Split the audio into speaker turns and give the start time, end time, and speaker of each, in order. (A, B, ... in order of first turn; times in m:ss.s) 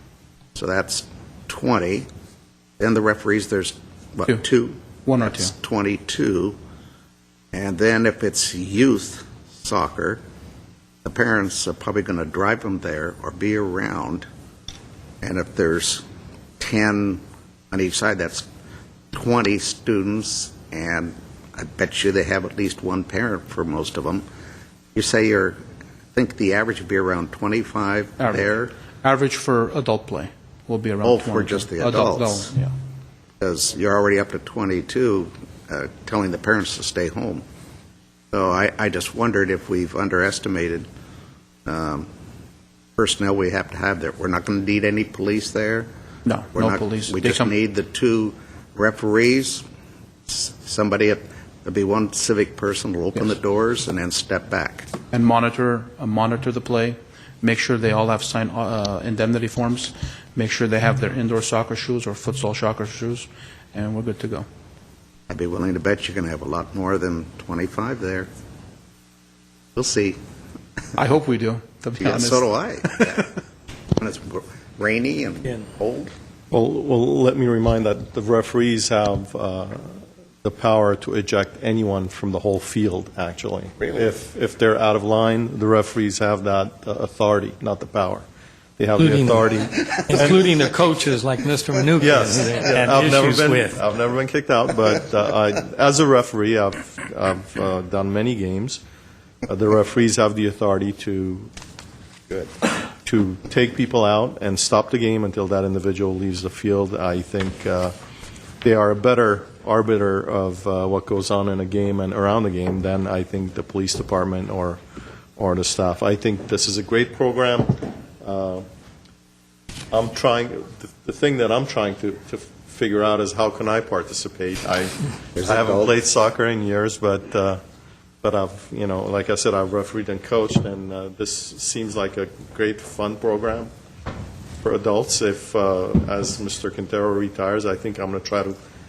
0:00.6-0:02.0 A
0:02.8-0:06.6 A
0:05.0-0:05.5 B
0:07.5-0:10.2 A
0:11.0-0:14.3 A
0:15.2-0:16.0 A
0:16.6-0:18.4 A
0:19.1-0:24.2 A
0:24.9-0:25.6 A
0:26.1-0:28.7 A
0:28.2-0:32.7 B
0:31.0-0:32.5 A
0:33.4-0:37.4 A
0:38.3-0:40.9 A
0:41.6-0:42.1 A
0:43.0-0:45.9 A
0:46.2-0:47.5 B
0:46.5-0:49.6 A
0:50.3-0:54.9 A
0:55.1-1:04.4 B
1:05.3-1:08.3 A
1:09.7-1:10.2 A
1:10.9-1:13.2 B
1:12.0-1:13.3 A
1:14.0-1:16.1 A
1:16.5-1:28.2 C
1:28.8-1:30.5 C
1:29.0-1:29.3 D
1:30.1-1:33.8 D
1:32.0-1:38.8 C
1:39.4-1:41.5 C
1:43.0-1:47.9 C
1:48.6-1:54.8 C
1:55.4-1:58.6 C
1:59.9-2:07.6 C
2:05.4-2:05.9 A
2:08.2-2:13.7 C
2:14.6-2:18.6 C